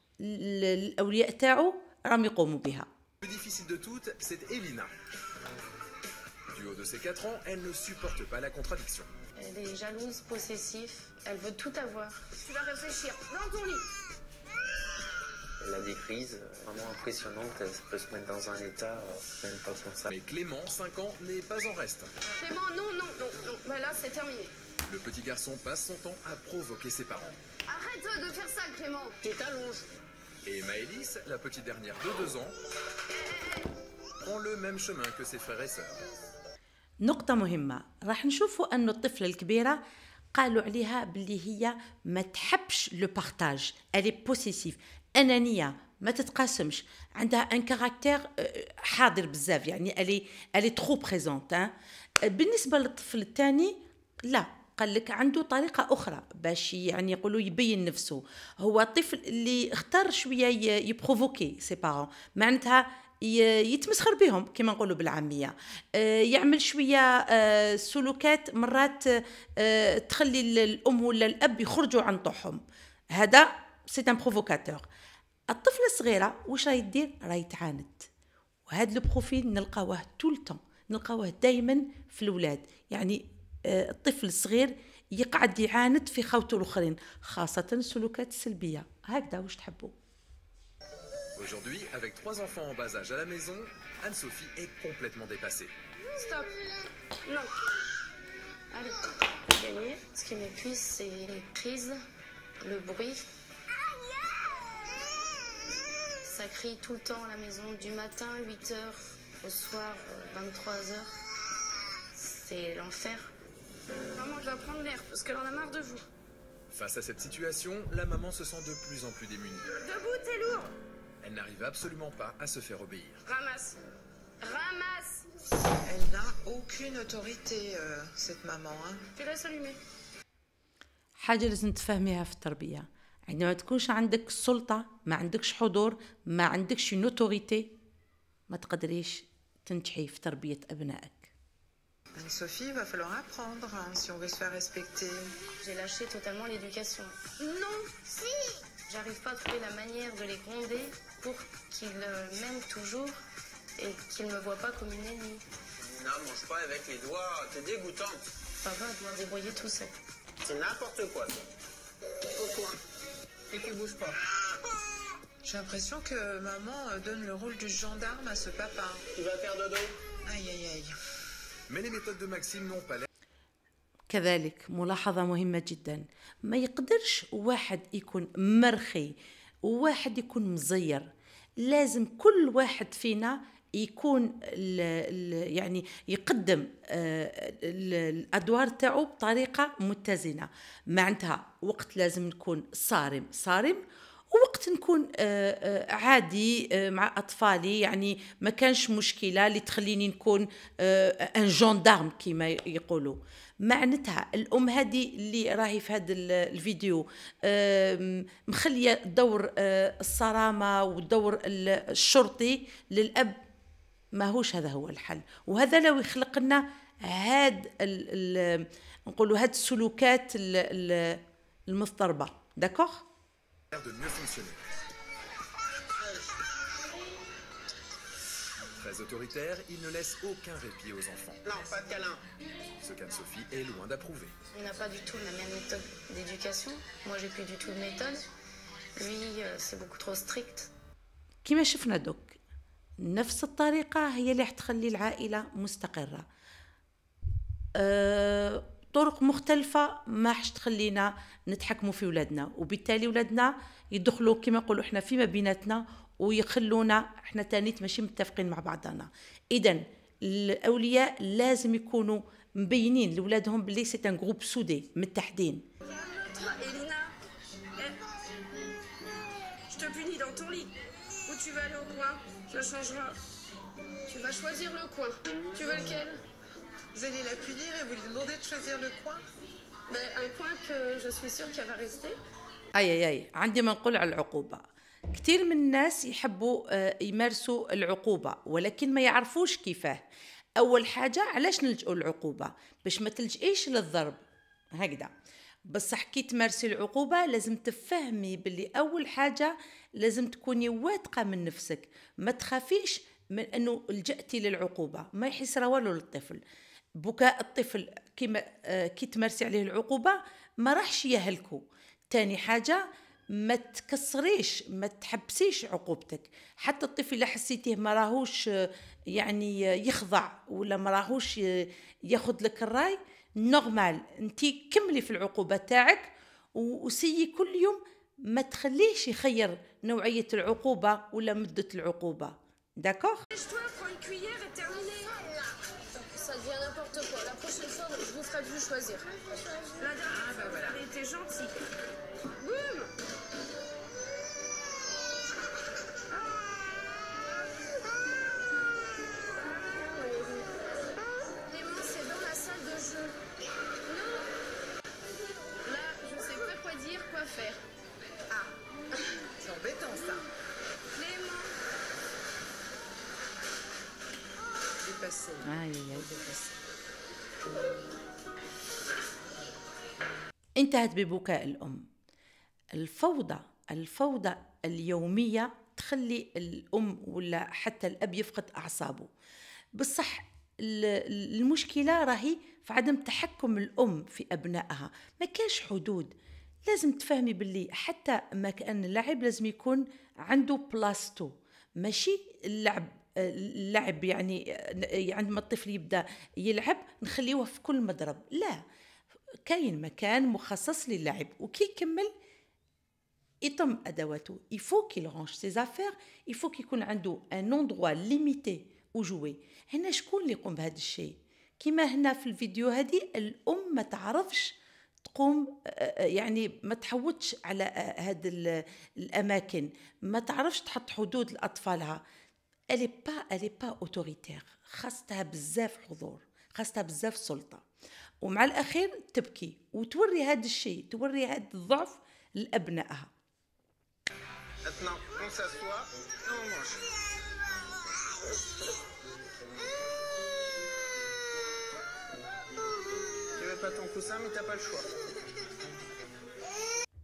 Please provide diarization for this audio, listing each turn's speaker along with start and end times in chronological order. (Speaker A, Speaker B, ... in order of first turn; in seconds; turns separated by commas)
Speaker A: 0.2-2.9, Speaker B: 3.2-4.9, Speaker B: 6.5-9.1, Speaker C: 9.4-13.9, Speaker D: 15.6-20.1, Speaker B: 20.1-22.1, Speaker C: 22.3-24.5, Speaker B: 24.9-27.4, Speaker C: 27.7-29.2, Speaker E: 29.2-29.9, Speaker B: 30.4-32.6, Speaker C: 33.2-33.7, Speaker B: 34.2-36.1, Speaker A: 37.0-39.8, Speaker A: 40.4-51.7, Speaker A: 52.3-72.6, Speaker A: 73.2-74.9, Speaker A: 75.5-78.1, Speaker A: 78.7-90.0, Speaker B: 91.4-95.7, Speaker C: 96.1-96.5, Speaker C: 97.3-97.5, Speaker C: 98.7-102.0, Speaker C: 102.6-103.3, Speaker C: 106.2-111.2, Speaker C: 112.1-113.3, Speaker C: 114.2-116.1, Speaker B: 116.7-119.8, Speaker C: 119.8-120.8, Speaker B: 121.2-123.2, Speaker C: 123.3-123.8, Speaker C: 124.4-125.2, Speaker F: 125.8-129.0, Speaker C: 129.2-129.8, Speaker A: 131.2-137.7, Speaker A: 138.5-141.3, Speaker F: 142.2-145.3, Speaker C: 145.6-153.2, Speaker C: 153.8-155.4, Speaker E: 155.8-158.2, Speaker C: 158.6-159.9, Speaker E: 160.4-161.4, Speaker E: 162.4-162.8, Speaker E: 163.5-164.2, Speaker F: 165.4-169.0, Speaker E: 169.2-170.0, Speaker F: 170.3-170.9, Speaker B: 171.7-173.1, Speaker A: 174.1-181.1, Speaker A: 181.6-213.4, Speaker A: 214.2-223.1, Speaker B: 223.7-224.7, Speaker B: 228.8-231.4, Speaker E: 231.5-232.2, Speaker B: 232.8-234.3, Speaker C: 234.5-238.2, Speaker C: 239.0-240.7, Speaker A: 241.4-242.4, Speaker A: 243.0-246.2, Speaker A: 247.8-265.7, Speaker C: 265.9-267.1, Speaker C: 269.7-270.8, Speaker C: 271.3-273.2, Speaker C: 274.1-276.2, Speaker F: 276.9-279.2, Speaker C: 279.9-282.2, Speaker A: 282.8-284.6, Speaker A: 285.1-290.0, Speaker A: 290.6-294.2, Speaker A: 294.8-295.1, Speaker A: 295.7-306.4, Speaker A: 307.0-312.8, Speaker A: 313.4-333.3, Speaker C: 333.3-341.5, Speaker F: 340.1-340.8, Speaker C: 342.4-342.9, Speaker C: 349.4-350.5, Speaker C: 351.4-353.1, Speaker C: 353.9-354.3, Speaker C: 355.6-357.6, Speaker F: 359.4-360.2, Speaker C: 360.9-361.5, Speaker F: 364.8-366.6, Speaker A: 365.4-366.1, Speaker A: 370.6-371.9, Speaker A: 372.8-379.1, Speaker A: 379.8-386.1, Speaker A: 386.7-398.6, Speaker A: 399.5-402.1, Speaker A: 403.4-422.0, Speaker A: 422.7-427.6, Speaker A: 428.2-433.1, Speaker E: 434.7-436.8, Speaker E: 443.4-444.9